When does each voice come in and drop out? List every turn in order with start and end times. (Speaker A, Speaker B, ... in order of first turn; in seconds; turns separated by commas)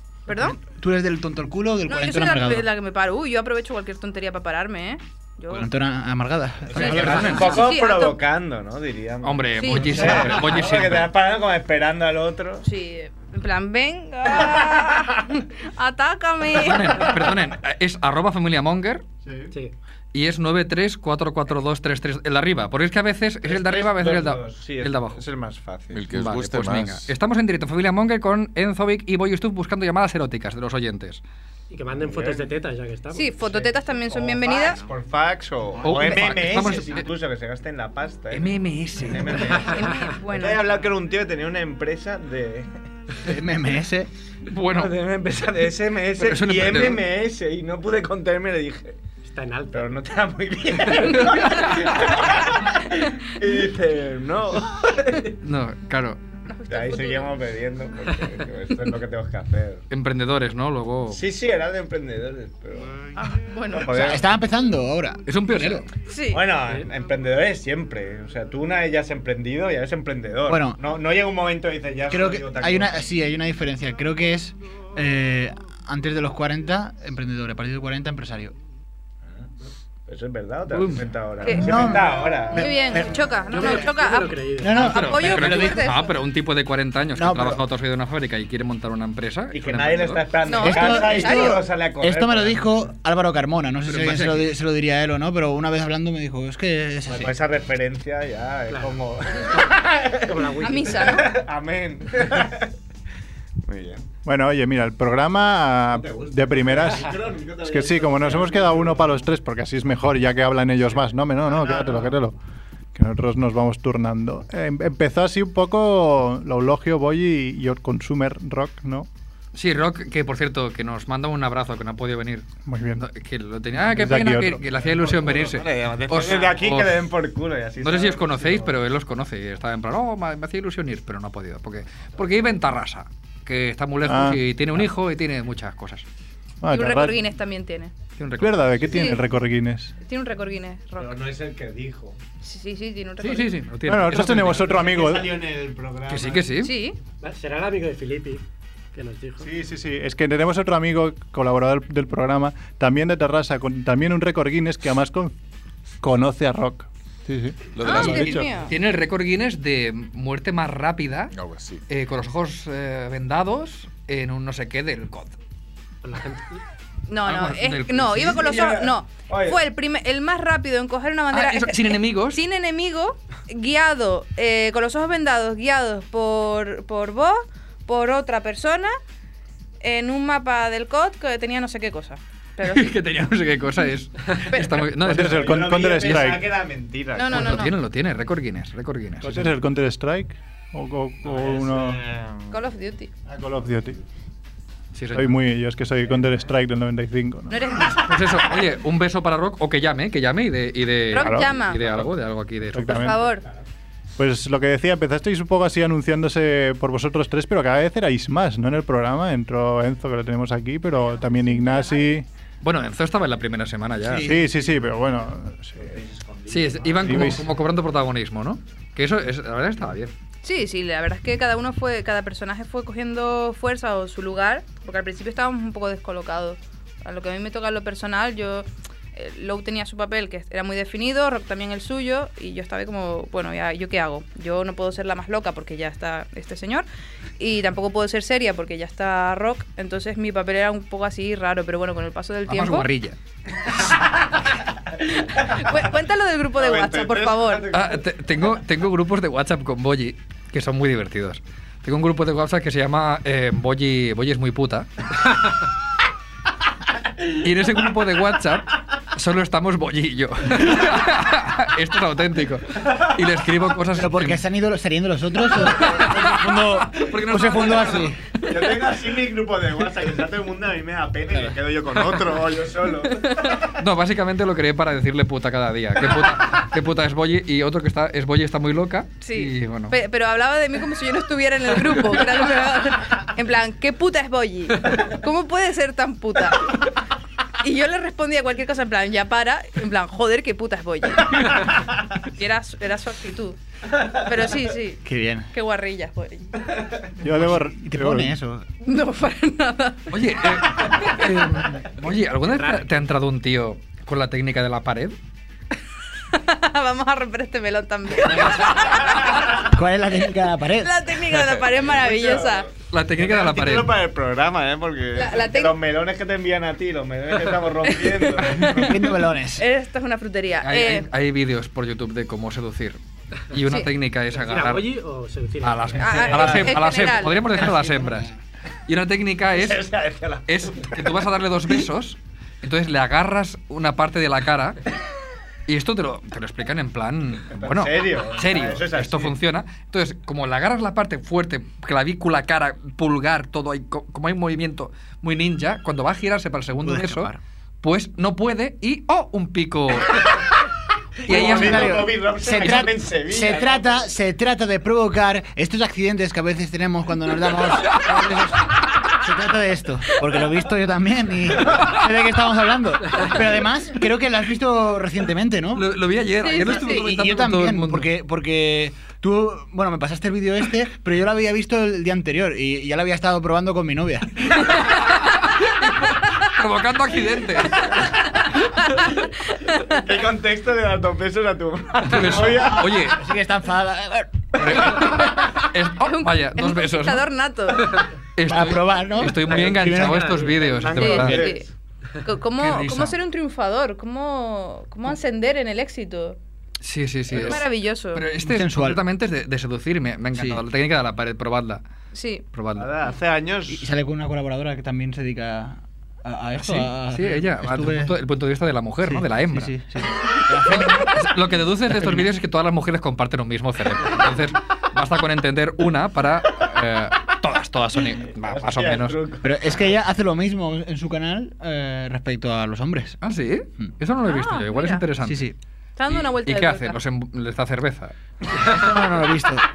Speaker A: 0.3-0.6, Speaker B: 0.6-2.7, Speaker A: 1.9-5.7, Speaker B: 5.5-7.5, Speaker C: 6.7-12.6, Speaker A: 6.7-8.2, Speaker D: 7.0-7.6, Speaker D: 9.2-11.1, Speaker A: 9.6-10.1, Speaker A: 12.6-17.1, Speaker C: 14.4-14.8, Speaker D: 16.5-19.0, Speaker E: 19.2-19.5, Speaker D: 20.1-25.2, Speaker C: 23.4-26.0, Speaker F: 25.9-27.1, Speaker D: 26.1-31.2, Speaker G: 31.7-33.7, Speaker C: 31.9-32.5, Speaker A: 33.1-34.8, Speaker C: 34.1-42.7, Speaker D: 35.8-37.1, Speaker D: 38.3-39.6, Speaker A: 39.5-40.6, Speaker G: 39.6-40.0, Speaker B: 43.2-44.1, Speaker D: 44.5-45.0, Speaker C: 44.7-49.0, Speaker D: 46.2-47.0, Speaker G: 49.2-49.9, Speaker C: 49.7-55.4, Speaker D: 55.4-56.2, Speaker A: 56.5-57.4, Speaker C: 56.7-59.8, Speaker D: 59.9-61.2, Speaker C: 61.1-63.0, Speaker A: 63.2-64.1, Speaker C: 63.7-64.3, Speaker B: 63.9-65.8, Speaker D: 65.3-65.9, Speaker A: 66.0-66.5, Speaker C: 66.3-73.0, Speaker B: 70.5-70.8, Speaker B: 72.1-78.5, Speaker C: 80.1-83.1, Speaker D: 80.7-81.1, Speaker A: 81.4-81.7, Speaker B: 81.5-83.8, Speaker A: 82.5-86.1, Speaker G: 83.5-84.9, Speaker B: 84.6-85.9, Speaker D: 84.7-90.2, Speaker B: 87.1-87.6, Speaker C: 89.5-92.7, Speaker A: 90.5-91.6, Speaker B: 90.6-97.3, Speaker D: 93.8-94.5, Speaker C: 97.0-102.7, Speaker G: 98.7-99.0, Speaker G: 99.5-101.3, Speaker A: 100.6-101.3, Speaker C: 103.6-104.1, Speaker E: 104.2-112.4, Speaker C: 105.9-109.2, Speaker C: 111.5-112.2, Speaker E: 112.9-119.1, Speaker D: 119.5-127.1, Speaker E: 122.7-123.0, Speaker E: 123.8-124.6, Speaker C: 124.8-128.8, Speaker D: 127.8-136.0, Speaker E: 134.0-134.4, Speaker E: 136.6-137.2, Speaker A: 136.7-137.9, Speaker D: 138.2-139.0, Speaker E: 138.4-139.9, Speaker A: 138.9-139.2, Speaker A: 140.0-141.2, Speaker C: 141.0-142.2, Speaker A: 142.4-143.5, Speaker D: 143.2-144.8, Speaker E: 143.9-145.4, Speaker C: 144.5-146.5, Speaker D: 146.1-146.8, Speaker A: 146.6-147.0, Speaker G: 147.2-149.5, Speaker E: 149.5-155.3, Speaker E: 156.0-158.5, Speaker F: 157.7-158.4, Speaker A: 157.8-158.7, Speaker D: 157.9-161.3, Speaker F: 161.3-161.8, Speaker D: 161.9-165.3, Speaker G: 166.0-166.6, Speaker A: 167.1-178.9, Speaker D: 167.2-168.5, Speaker C: 168.2-169.6, Speaker D: 171.3-172.4, Speaker A: 179.8-182.9, Speaker D: 182.6-186.1, Speaker E: 185.0-186.5, Speaker C: 185.1-187.7, Speaker A: 187.2-187.7, Speaker D: 187.3-189.5, Speaker E: 189.2-192.0, Speaker C: 191.2-192.6, Speaker A: 192.5-193.1, Speaker E: 193.3-194.0, Speaker D: 194.9-195.4, Speaker E: 195.1-197.6, Speaker A: 197.5-198.4, Speaker D: 197.9-203.2, Speaker A: 201.1-201.8, Speaker E: 201.2-201.5, Speaker E: 202.7-203.3, Speaker A: 203.0-203.4, Speaker E: 204.2-212.2, Speaker A: 211.1-212.1, Speaker D: 212.6-214.3, Speaker B: 214.0-214.4, Speaker E: 214.2-215.9, Speaker C: 215.8-217.4, Speaker D: 216.5-220.1, Speaker E: 217.0-217.4, Speaker A: 220.4-236.8, Speaker A: 237.4-242.9, Speaker D: 242.5-243.2, Speaker A: 245.0-247.7, Speaker C: 246.5-248.2, Speaker D: 247.7-255.3, Speaker D: 257.2-264.4, Speaker B: 263.9-268.2, Speaker D: 265.5-268.1, Speaker C: 268.5-273.6, Speaker A: 273.2-273.6, Speaker D: 273.7-279.9, Speaker A: 279.2-286.8, Speaker A: 287.6-296.6, Speaker B: 295.0-295.5, Speaker E: 297.2-298.3, Speaker B: 297.3-298.6, Speaker A: 298.8-300.1, Speaker D: 300.1-305.2, Speaker G: 302.6-302.9, Speaker A: 306.3-309.6, Speaker B: 309.6-310.9, Speaker A: 310.8-312.7, Speaker C: 311.7-319.1, Speaker D: 312.9-313.9, Speaker A: 315.1-315.8, Speaker A: 317.9-318.9, Speaker B: 318.7-319.6, Speaker A: 319.6-321.1, Speaker D: 320.6-323.0, Speaker D: 323.5-324.9, Speaker G: 324.3-326.8, Speaker D: 325.6-328.3, Speaker A: 326.0-327.4, Speaker C: 326.3-326.7, Speaker B: 327.5-328.3, Speaker D: 328.9-329.9, Speaker C: 329.5-331.2, Speaker D: 330.5-334.9, Speaker D: 335.7-350.4, Speaker C: 337.5-339.4, Speaker B: 346.8-347.4, Speaker D: 351.2-352.1, Speaker C: 351.2-353.9, Speaker B: 351.3-365.9, Speaker D: 357.9-358.4, Speaker D: 365.8-368.1, Speaker A: 366.4-366.9, Speaker B: 366.5-374.8, Speaker D: 374.7-378.0, Speaker A: 378.6-380.0, Speaker C: 379.8-383.1, Speaker D: 382.0-383.2, Speaker B: 382.6-385.1, Speaker D: 384.6-387.3, Speaker A: 385.2-388.0, Speaker D: 388.4-391.4, Speaker B: 388.4-390.4, Speaker C: 389.5-391.7, Speaker G: 389.6-390.7, Speaker A: 391.0-391.6, Speaker B: 391.0-391.4, Speaker A: 392.2-396.4, Speaker D: 392.6-393.1, Speaker D: 396.8-401.8, Speaker A: 397.3-398.2, Speaker B: 398.4-399.0, Speaker B: 400.3-400.6, Speaker A: 402.1-402.4, Speaker D: 402.5-402.9, Speaker C: 402.8-403.9, Speaker B: 403.7-408.1, Speaker D: 406.6-409.7, Speaker B: 409.0-411.2, Speaker D: 410.6-419.2, Speaker B: 411.9-412.3, Speaker C: 418.3-419.8, Speaker B: 419.4-423.2, Speaker D: 423.2-425.5, Speaker A: 424.3-425.0, Speaker B: 425.2-425.5, Speaker A: 426.0-427.0, Speaker D: 426.1-428.1, Speaker B: 428.5-429.6